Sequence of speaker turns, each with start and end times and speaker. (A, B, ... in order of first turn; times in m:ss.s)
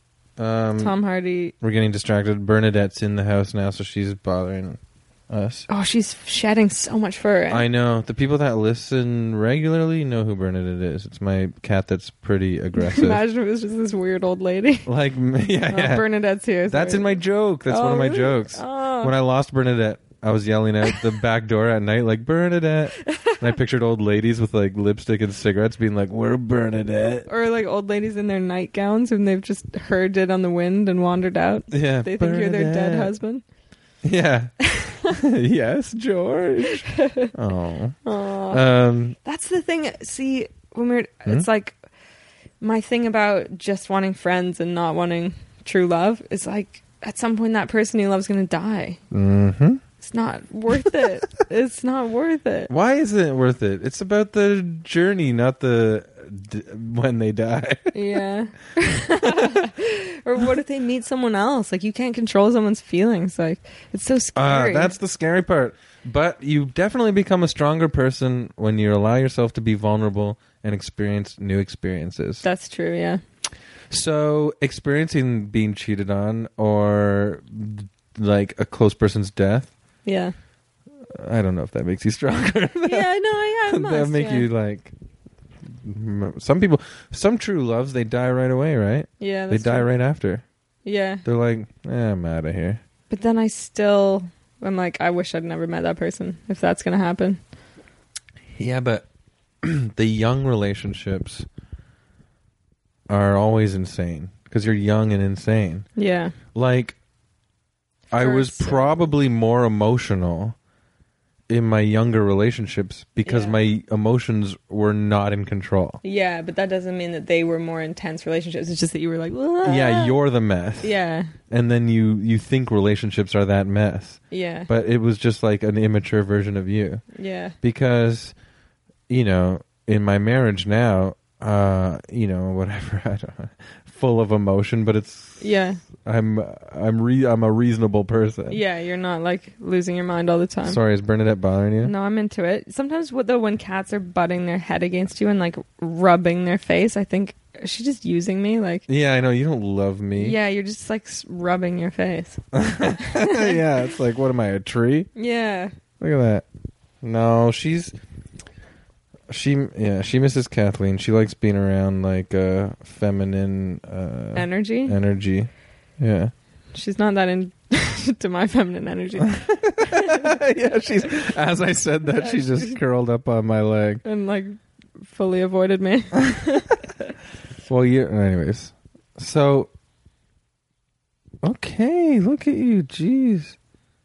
0:00.4-0:01.0 A
0:00.8-0:01.5 B
0:01.6-0:05.7 A
0:05.7-0:07.6 B
0:07.5-0:13.2 A
0:12.8-0:14.9 B
0:14.8-0:16.1 A
0:15.7-0:19.1 B
0:16.7-0:27.3 A
0:23.0-0:23.4 B
0:27.3-0:33.4 B
0:31.7-0:33.1 A
0:34.0-0:39.2 A
0:34.7-0:35.1 B
0:36.7-0:37.3 B
0:38.0-0:38.7 B
0:39.2-0:41.8 B
0:42.6-0:49.0 B
0:49.1-0:49.8 A
0:50.0-0:52.7 B
0:52.7-0:58.0 A
0:57.9-1:04.9 B
0:58.9-0:59.7 A
1:04.3-1:12.4 A
1:12.4-1:13.2 B
1:13.9-1:19.7 A
1:20.0-1:20.3 B
1:21.1-1:23.1 A
1:22.8-1:24.5 B
1:23.7-1:24.9 A
1:25.7-1:30.4 A
1:29.2-1:29.9 B
1:30.8-1:31.2 B
1:31.2-1:32.8 A
1:33.1-1:37.4 B
1:38.6-1:39.0 A
1:39.6-1:41.5 A
1:43.1-1:45.9 A
1:46.0-1:46.4 B
1:46.5-1:47.0 A
1:48.1-1:50.6 A
1:48.1-1:48.9 B
1:51.5-1:56.0 A
1:53.2-1:53.6 B
1:56.0-2:00.2 B
1:59.6-2:00.9 A
2:00.8-2:01.3 B
2:01.5-2:07.0 A
2:04.3-2:04.7 B
2:07.1-2:07.6 B
2:07.6-2:08.3 A
2:09.1-2:15.4 A
2:15.4-2:15.8 B
2:15.9-2:18.6 A
2:18.5-2:20.8 B
2:20.6-2:21.9 A
2:21.8-2:28.8 B
2:28.9-2:30.4 A
2:30.2-2:32.4 B
2:32.5-2:35.1 A
2:33.0-2:33.6 B
2:35.1-2:35.7 B
2:36.0-2:36.4 A
2:37.0-2:37.9 A
2:39.3-2:46.3 A
2:44.3-2:45.0 B
2:46.7-2:50.3 B
2:49.2-2:54.0 A
2:52.2-2:52.7 B
2:54.0-2:56.8 B
2:57.7-2:59.7 A
3:01.4-3:03.6 A